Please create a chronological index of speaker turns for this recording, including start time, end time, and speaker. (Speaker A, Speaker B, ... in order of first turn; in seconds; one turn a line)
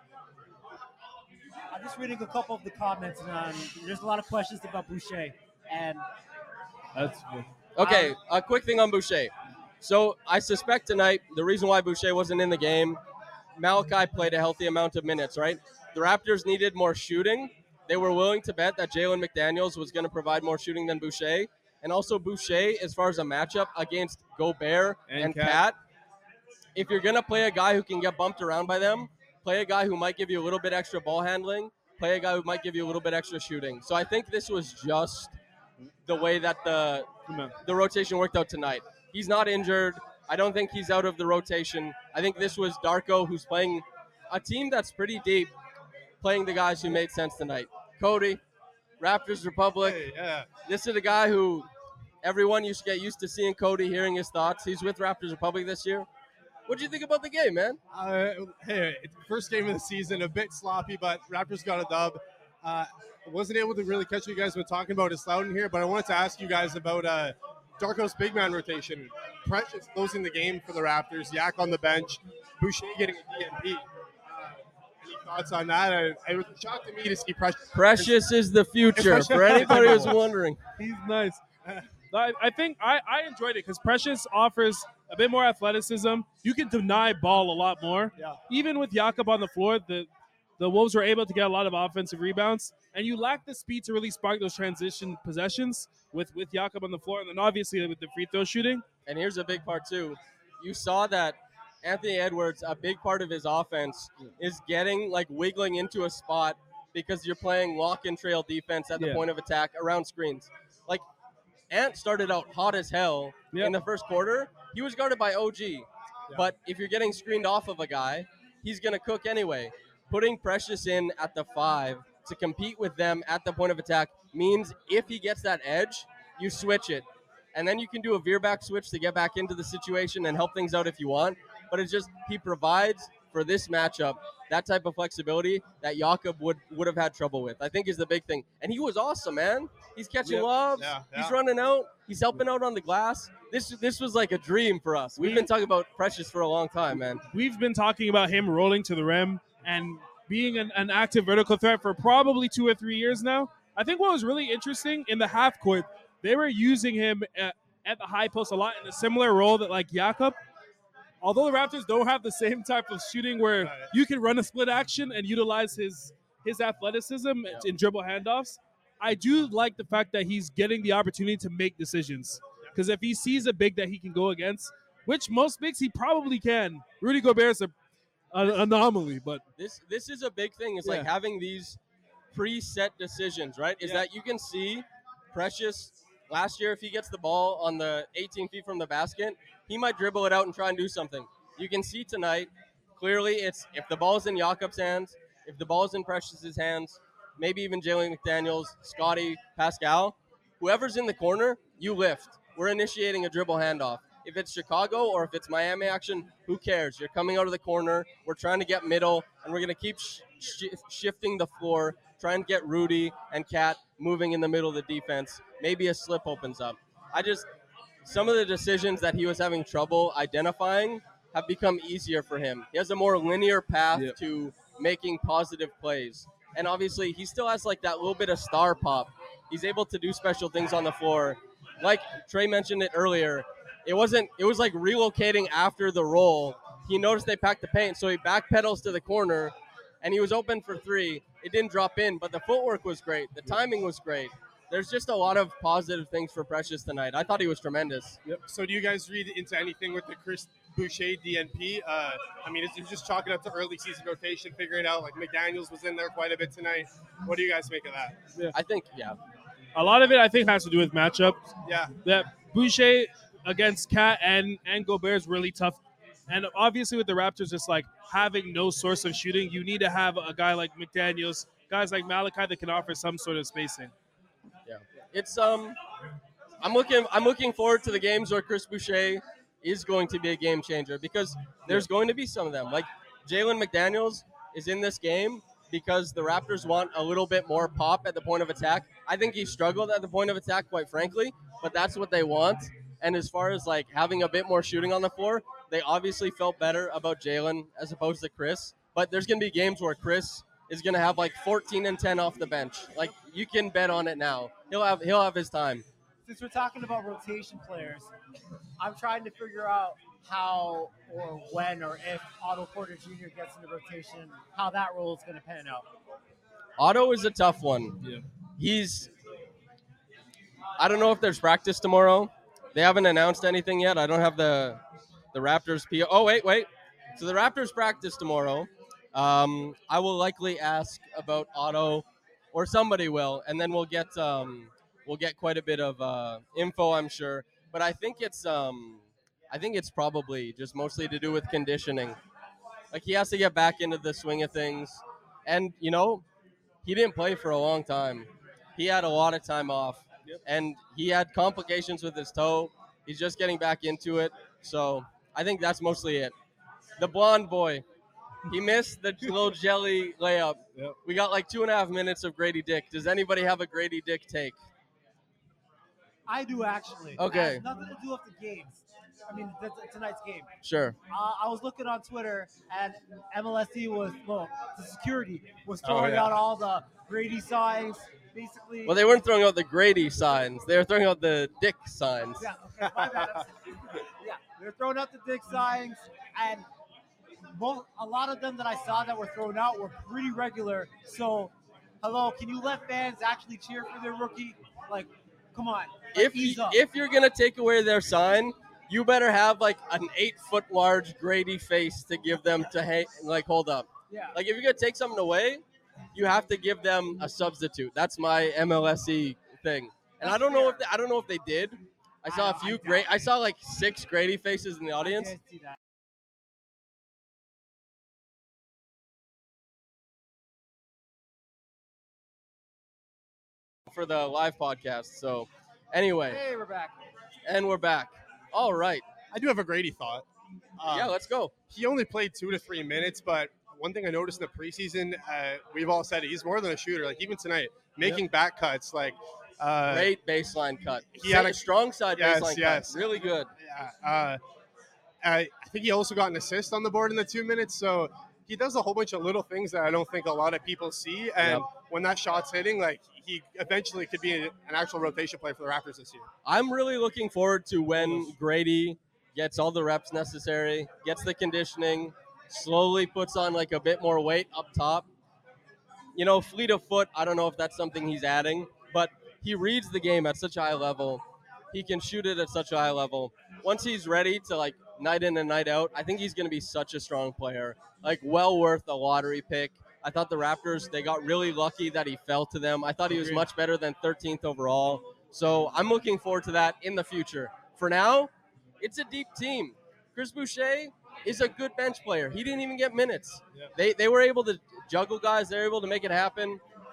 Speaker A: 1.7-6.1
Speaker B: 7.0-7.5
Speaker C: 7.8-13.0
Speaker A: 7.8-8.1
Speaker C: 13.6-25.8
Speaker B: 25.1-25.6
Speaker C: 26.8-35.4
Speaker C: 36.1-37.1
Speaker B: 37.3-37.5
Speaker C: 37.6-45.5
Speaker C: 46.2-48.4
Speaker C: 49.0-50.0
Speaker D: 49.8-50.5
Speaker C: 50.7-51.7
Speaker C: 52.2-56.1
Speaker C: 56.7-57.8
Speaker D: 57.9-78.2
Speaker C: 77.7-80.6
Speaker D: 79.0-80.2
Speaker B: 79.3-80.2
Speaker B: 80.8-81.4
Speaker B: 82.1-90.1
Speaker B: 90.6-98.8
Speaker C: 99.1-111.0
Speaker B: 109.0-109.2
Speaker C: 111.7-147.2
Speaker D: 140.2-141.4
Speaker B: 145.2-145.5
Speaker B: 147.3-160.4
Speaker B: 161.2-177.7
Speaker D: 163.6-163.9
Speaker B: 178.3-179.4
Speaker C: 179.6-181.8
Speaker B: 180.8-181.1
Speaker C: 182.3-217.5
Speaker C: 218.1-248.2
Speaker D: 248.5-258.2
Speaker C: 258.5-259.2
Speaker B: 259.8-273.9
Speaker D: 261.6-261.9
Speaker C: 274.7-275.8
Speaker C: 276.6-305.9
Speaker A: 306.3-308.1
Speaker A: 308.8-315.9
Speaker C: 316.8-318.0
Speaker C: 318.6-319.1
Speaker C: 320.8-324.8
Speaker C: 325.3-342.2
Speaker C: 342.9-346.2
Speaker C: 346.8-356.3
Speaker C: 357.0-357.8
Speaker C: 358.5-364.6
Speaker A: 366.3-370.5
Speaker C: 367.2-367.6
Speaker C: 370.6-371.0
Speaker A: 371.1-378.9
Speaker C: 375.9-376.3
Speaker C: 378.9-382.4
Speaker A: 382.4-386.7
Speaker A: 387.6-396.8
Speaker C: 396.1-405.6
Speaker A: 404.1-404.4
Speaker C: 406.1-415.3
Speaker A: 410.2-410.8
Speaker A: 412.3-413.2
Speaker A: 415.0-415.8
Speaker C: 423.9-426.4
Speaker A: 426.3-426.9
Speaker C: 427.5-429.1
Speaker D: 429.3-430.2
Speaker D: 430.8-431.1
Speaker C: 430.9-431.5
Speaker D: 431.7-440.1
Speaker C: 439.9-443.5
Speaker D: 441.2-441.6
Speaker D: 442.1-444.4
Speaker D: 445.2-456.3
Speaker C: 451.4-451.7
Speaker C: 456.4-465.1
Speaker C: 466.1-496.6
Speaker B: 483.1-483.4